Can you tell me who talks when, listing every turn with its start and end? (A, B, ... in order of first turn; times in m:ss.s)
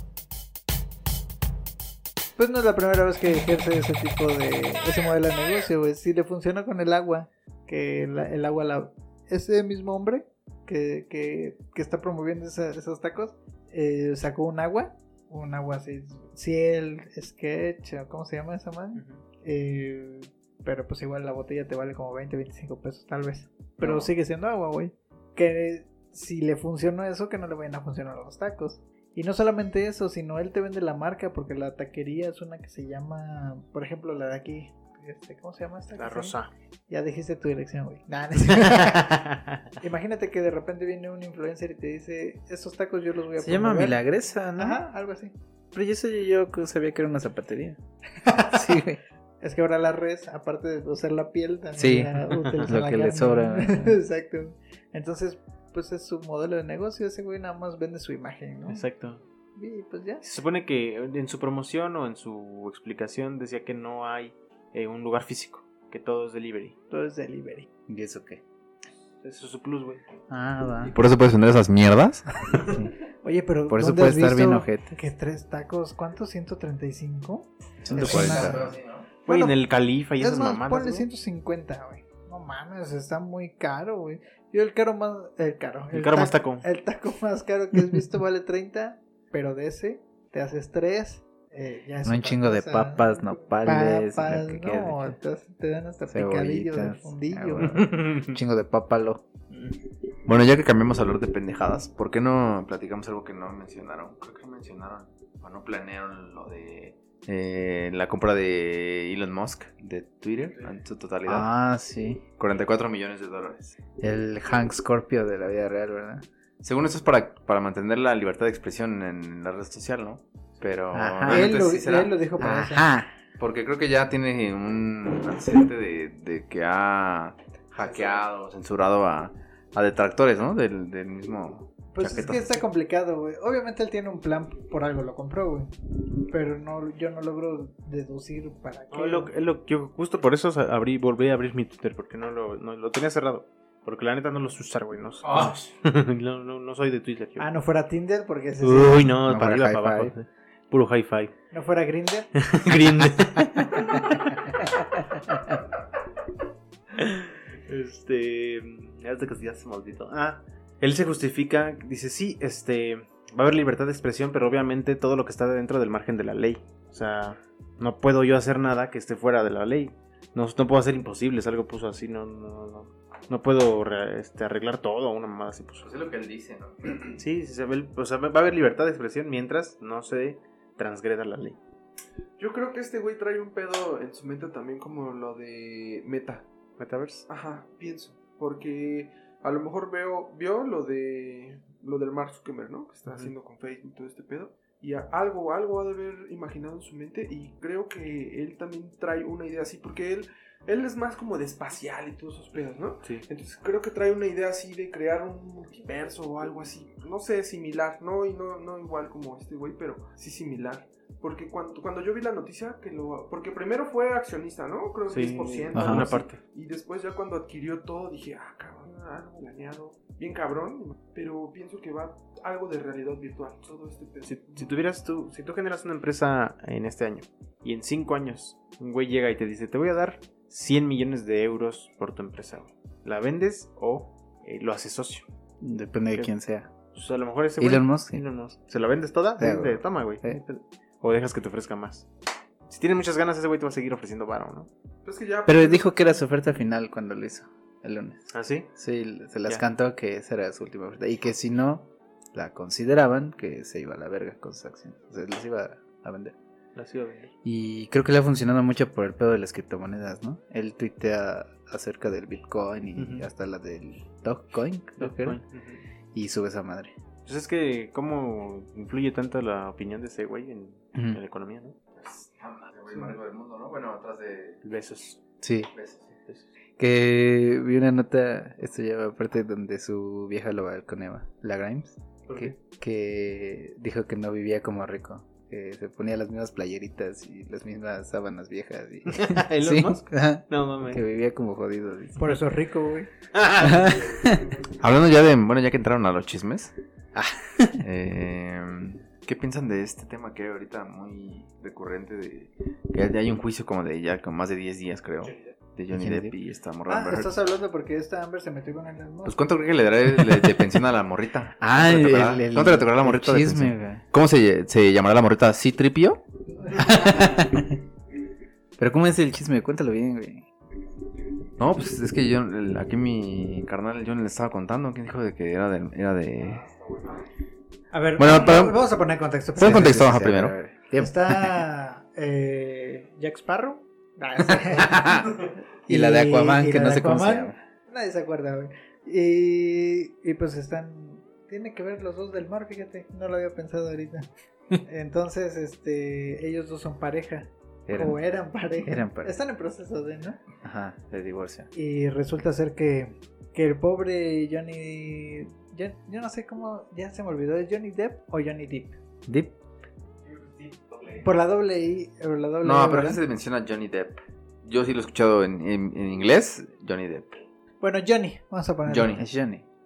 0:02.4-0:36.4 A
0:18.9-0:19.2 B
0:23.8-0:24.1 B
0:36.0-0:36.5 B
0:36.9-0:39.2 A
0:38.4-0:39.6 B
0:39.8-0:44.0 A
0:43.4-0:44.8 C
0:44.6-0:45.3 A
0:45.7-0:47.8 C
0:48.2-0:48.8 A
0:48.5-0:49.0 C
0:49.4-0:58.8 A
0:51.8-0:54.0 C
0:52.3-0:52.7 B
0:58.7-0:59.2 B
0:59.6-1:00.2 A
1:00.2-1:06.8 B
1:06.9-1:07.7 A
1:07.9-1:08.4 C
1:09.2-1:10.0 B
1:10.3-1:11.0 C
1:10.8-1:12.3 D
1:13.2-1:18.7 A
1:13.7-1:15.0 C
1:17.8-1:18.7 C
1:17.9-1:19.1 D
1:19.2-1:21.0 B
1:19.3-1:19.5 A
1:20.2-1:37.8 A
1:25.9-1:26.6 B
1:32.0-1:35.2 C
1:36.1-1:39.2 C
1:37.7-1:38.4 B
1:39.5-1:39.8 B
1:40.2-1:51.5 D
1:51.2-1:52.2 C
1:52.4-1:53.8 D
1:54.0-1:56.2 C
1:56.6-2:02.1 D
2:00.9-2:01.6 C
2:01.3-2:02.9 A
2:02.4-2:03.1 C
2:03.4-2:12.6 D
2:11.9-2:19.3 A
2:18.9-2:27.5 B
2:25.2-2:25.7 D
2:27.4-2:29.2 A
2:28.6-2:31.3 B
2:29.2-2:30.1 C
2:31.5-2:32.3 A
2:32.4-2:35.6 B
2:36.9-2:55.9 B
2:55.8-2:57.2 D
2:57.1-3:01.6 B
3:02.4-3:06.4 E
3:06.8-3:07.2 B
3:07.3-3:44.7 E
3:35.1-3:36.4 B
3:35.7-3:36.1 C
3:44.2-3:55.2 B
3:55.6-3:56.7 C
3:56.9-4:02.1 B
3:57.6-3:58.2 C
3:59.4-4:00.4 C
4:02.7-4:04.7 B
4:05.0-4:06.1 E
4:05.4-4:16.3 C
4:08.3-4:08.7 B
4:16.8-4:17.3 B
4:17.4-4:25.4 C
4:23.0-4:23.3 B
4:25.0-4:25.8 B
4:26.1-4:26.9 C
4:27.2-4:31.8 B
4:30.9-4:31.2 C
4:32.0-4:34.6 D
4:34.6-4:35.2 B
4:35.4-4:35.7 C
4:35.7-4:36.1 D
4:36.8-4:52.4 C
4:42.3-4:42.6 B
4:49.1-4:51.0 B
4:52.2-4:53.1 A
4:53.3-4:54.4 B
4:53.6-4:54.5 C
4:54.7-4:56.7 D
4:57.1-4:57.8 C
4:57.8-5:07.3 D
5:05.9-5:06.4 C
5:06.9-5:09.4 A
5:09.2-5:16.2 D
5:10.2-5:10.6 C
5:11.6-5:14.0 C
5:16.7-5:17.8 C
5:18.8-5:20.4 C
5:21.6-5:26.7 D
5:27.9-5:30.0 A
5:28.2-5:28.9 D
5:29.6-5:30.5 D
5:29.6-5:31.6 C
5:31.0-5:35.3 A
5:34.6-5:35.3 C
5:35.8-5:44.3 A
5:35.9-5:37.6 C
5:44.8-5:50.4 A
5:47.9-5:48.2 C
5:48.8-5:49.3 C
5:50.6-5:51.7 C
5:51.7-5:59.0 A
5:59.2-5:59.5 C
6:00.3-6:01.2 B
6:01.2-6:03.2 A
6:02.6-6:07.4 D
6:07.8-6:09.2 A
6:08.9-6:09.2 D
6:09.1-6:09.6 C